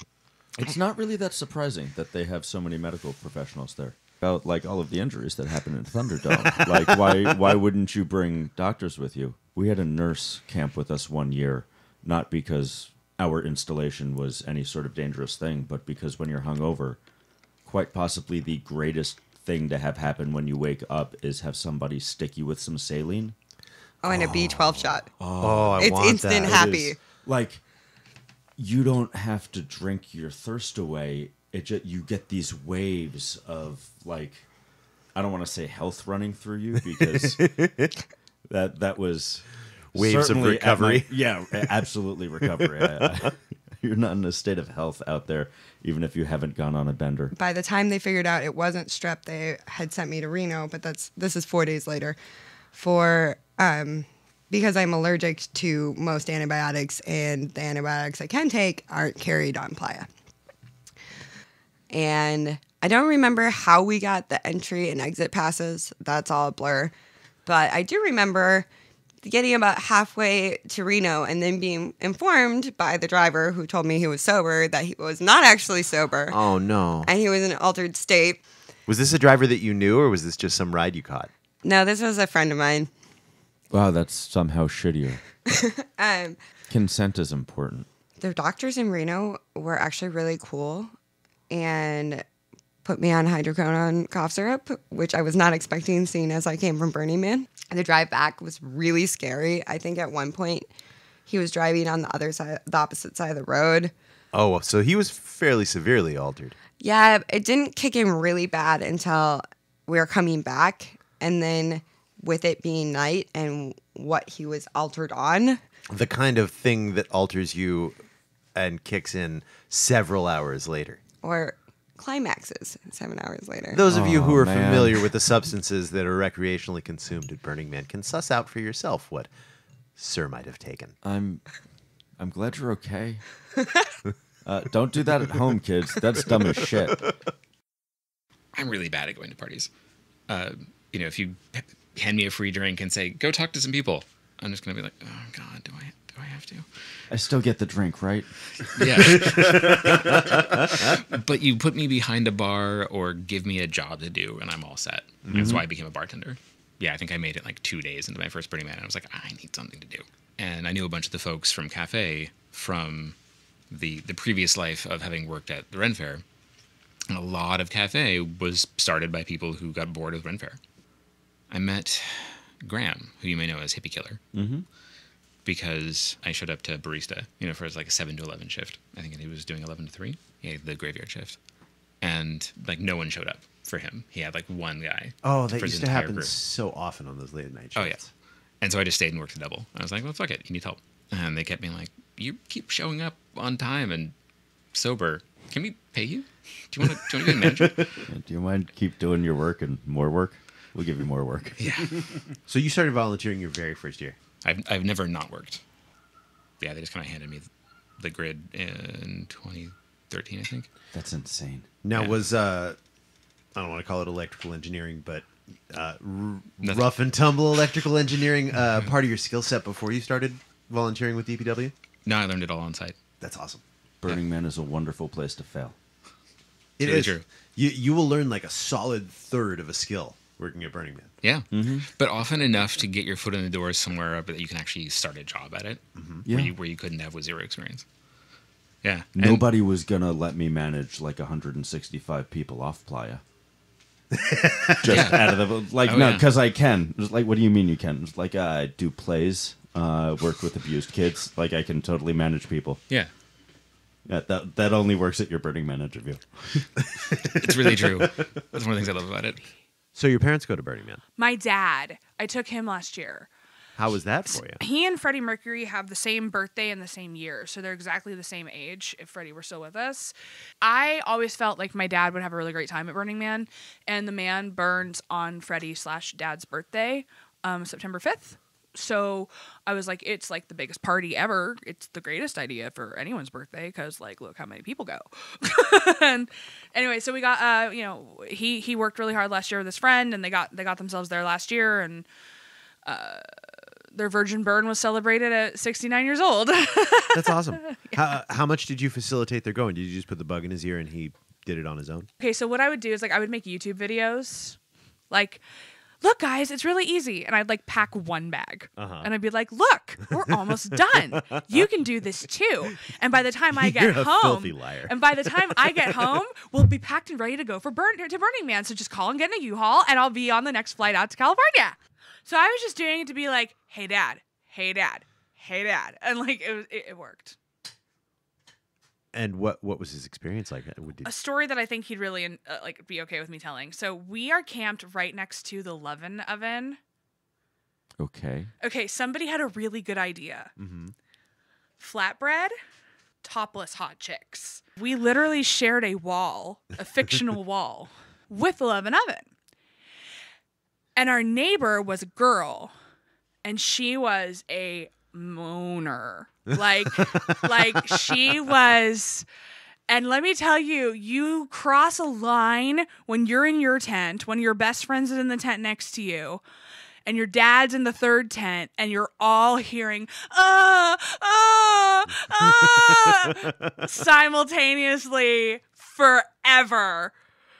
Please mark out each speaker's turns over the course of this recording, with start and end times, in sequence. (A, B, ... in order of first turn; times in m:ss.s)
0:00.6-0:17.0 A
0:17.6-0:23.3 A
0:24.0-0:25.1 B
0:24.1-0:26.6 C
0:25.2-0:27.6 A
0:25.8-0:27.0 B
0:28.6-0:34.4 A
0:35.1-0:37.5 A
0:37.0-0:37.9 C
0:38.5-0:47.3 A
0:39.9-0:41.7 C
0:42.6-0:43.1 C
0:47.3-0:52.2 B
0:52.7-1:00.1 B
1:01.9-1:06.9 B
1:07.4-1:08.7 B
1:09.2-1:16.4 B
1:16.3-1:17.1 C
1:17.0-1:18.4 B
1:18.9-1:21.3 C
1:21.6-1:22.9 B
1:23.7-1:25.2 A
1:25.5-1:26.4 B
1:26.7-1:27.9 A
1:28.2-1:30.9 B
1:31.5-1:32.2 B
1:32.8-1:40.7 B
1:41.3-1:43.9 B
1:44.3-1:46.6 C
1:46.8-1:55.6 B
1:55.9-1:58.0 C
1:58.5-2:01.0 C
2:01.2-2:03.8 B
2:03.7-2:09.3 C
2:03.9-2:05.1 A
2:10.0-2:10.9 C
2:11.0-2:11.4 A
2:12.2-2:13.2 A
2:14.4-2:17.0 A
2:18.5-2:19.7 D
2:20.3-2:26.8 D
2:27.1-2:29.9 A
2:28.6-2:43.2 D
2:35.2-2:35.6 C
2:35.3-2:35.6 A
2:43.7-2:46.2 D
2:47.1-2:50.6 D
2:51.5-2:54.2 D
2:54.3-2:54.6 A
2:55.4-3:01.4 D
3:02.0-3:06.3 D
3:05.2-3:08.1 C
3:07.8-3:08.0 D
3:08.6-3:14.1 D
3:14.7-3:18.0 D
3:17.4-3:17.8 C
3:18.1-3:21.6 A
3:21.6-3:22.0 D
3:22.5-3:24.2 C
3:24.4-3:25.6 D
3:26.6-3:27.5 D
3:28.0-3:30.7 D
3:30.9-3:31.7 A
3:31.8-3:32.8 C
3:31.9-3:32.2 D
3:33.5-3:41.7 C
3:36.6-3:36.9 D
3:42.0-3:43.0 D
3:43.2-3:43.6 C
3:44.0-3:45.7 A
3:46.8-3:51.1 C
3:46.8-3:47.2 D
3:51.2-3:57.8 D
3:51.5-3:51.9 A
3:56.0-3:56.2 C
3:56.2-3:56.5 A
3:58.8-3:59.4 D
3:59.2-4:03.2 A
4:04.1-4:05.3 C
4:04.8-4:12.8 A
4:04.9-4:06.2 D
4:14.1-4:16.7 A
4:17.0-4:18.1 C
4:17.4-4:19.4 D
4:19.9-4:21.0 C
4:21.2-4:23.3 E
4:23.8-4:24.6 C
4:24.3-4:52.1 E
4:52.8-4:53.3 E
4:53.9-4:58.0 E
4:57.1-5:02.1 C
5:02.2-5:04.6 E
5:05.1-5:05.4 E
5:06.0-5:27.4 E
5:08.8-5:09.1 C
5:10.2-5:11.7 C
5:13.5-5:16.2 C
5:29.1-5:31.1 C
5:31.0-5:36.8 E
5:38.0-5:38.5 A
5:38.6-5:40.5 E
5:40.6-5:40.9 C
5:41.8-5:42.5 E
5:43.2-5:49.3 E
5:51.0-5:52.7 E
5:53.4-5:59.2 E
5:57.0-5:58.2 C
5:59.9-6:06.4 E
6:07.0-6:17.1 E